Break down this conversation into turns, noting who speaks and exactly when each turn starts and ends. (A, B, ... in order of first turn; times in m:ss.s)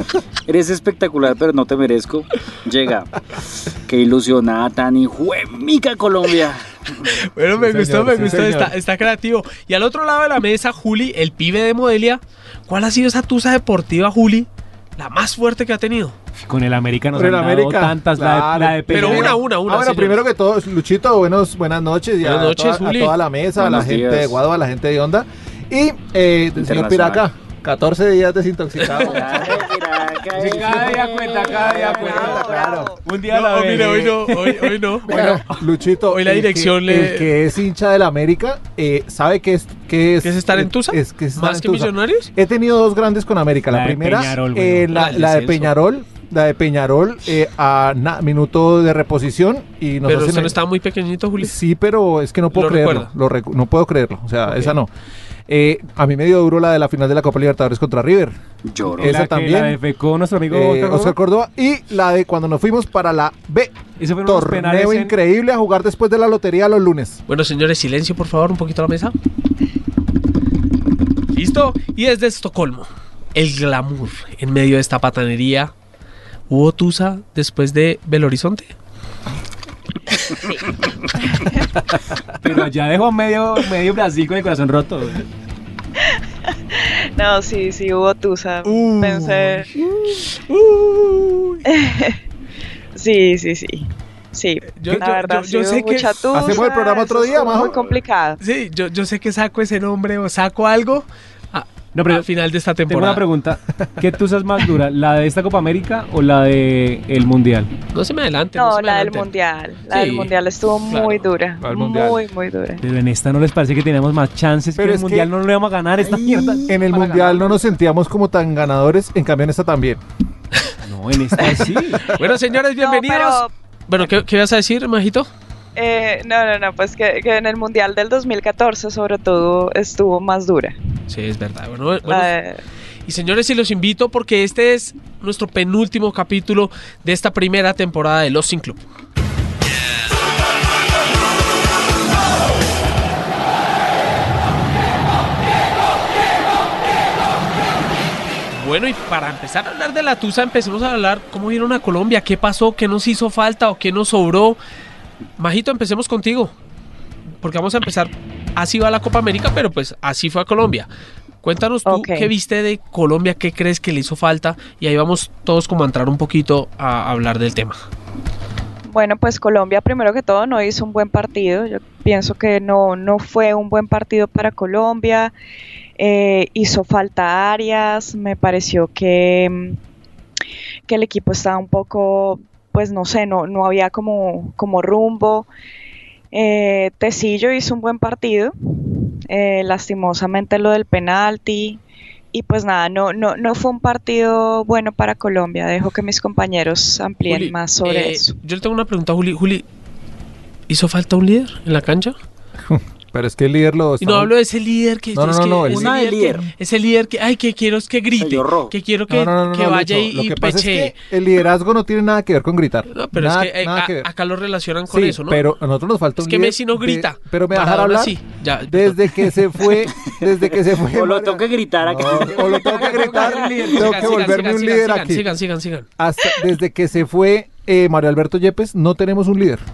0:00.5-0:03.1 A
0:03.9-0:07.1 A
0:07.2-0:16.2 B
0:07.6-0:08.7 C
0:16.4-0:19.4 D
0:17.2-0:29.6 C
0:18.9-0:20.2 B
0:22.2-0:23.2 B
0:23.6-0:24.4 A
0:26.6-0:27.2 A
0:28.8-0:29.4 B
0:29.0-0:32.5 A
0:30.3-0:35.4 D
0:30.7-0:31.0 C
0:31.3-0:33.0 E
0:32.0-0:32.9 C
0:33.3-0:35.4 B
0:35.1-0:50.6 C
0:36.1-0:37.3 B
0:40.2-0:42.3 B
0:43.7-0:45.7 D
0:50.1-0:51.6 B
0:51.4-0:54.9 C
0:52.5-0:53.1 B
0:55.5-0:58.4 C
0:58.6-0:59.2 A
0:59.0-0:59.8 C
0:59.0-1:01.2 D
1:00.5-1:07.2 C
1:04.0-1:05.2 D
1:07.3-1:09.1 B
1:11.3-1:15.7 B
1:16.5-1:18.7 B
1:22.4-1:25.3 D
1:26.7-1:29.7 E
1:28.6-1:29.7 B
1:30.3-1:31.6 B
1:31.7-1:32.2 E
1:33.0-1:38.4 E
1:34.8-1:36.4 B
1:36.3-1:37.8 C
1:37.6-1:38.0 A
1:38.4-1:43.2 B
1:41.9-1:42.3 D
1:42.9-1:47.7 D
1:47.9-1:49.3 B
1:48.6-1:52.8 E
1:49.9-1:50.3 B
1:50.9-1:51.3 B
1:51.6-1:52.2 C
1:52.8-1:57.6 D
1:54.8-1:55.3 C
1:56.0-1:56.8 A
1:56.7-2:00.0 C
2:00.8-2:02.2 D
2:02.1-2:05.3 B
2:02.8-2:03.5 E
2:05.8-2:10.8 E
2:11.1-2:12.3 B
2:12.1-2:12.6 E
2:13.1-2:18.8 B
2:28.5-2:34.6 B
2:35.4-2:36.5 B
2:37.4-2:40.9 B
2:41.4-2:47.8 B
2:41.9-2:42.3 E
2:48.9-2:55.3 E
2:56.0-2:59.8 E
3:00.9-3:05.5 E
3:06.3-3:11.8 E
3:12.3-3:18.3 E
3:17.3-3:19.7 B
3:20.7-3:22.2 B
3:22.7-3:24.3 C
3:24.0-3:31.0 B
3:25.2-3:26.0 C
3:25.7-3:26.5 A
3:28.2-3:28.8 A
3:29.1-3:34.1 C
3:32.9-3:35.5 B
3:34.9-3:45.2 C
3:36.2-3:39.4 B
3:40.8-3:43.9 A
3:42.0-3:44.1 D
3:43.0-3:45.9 B
3:46.0-3:49.6 C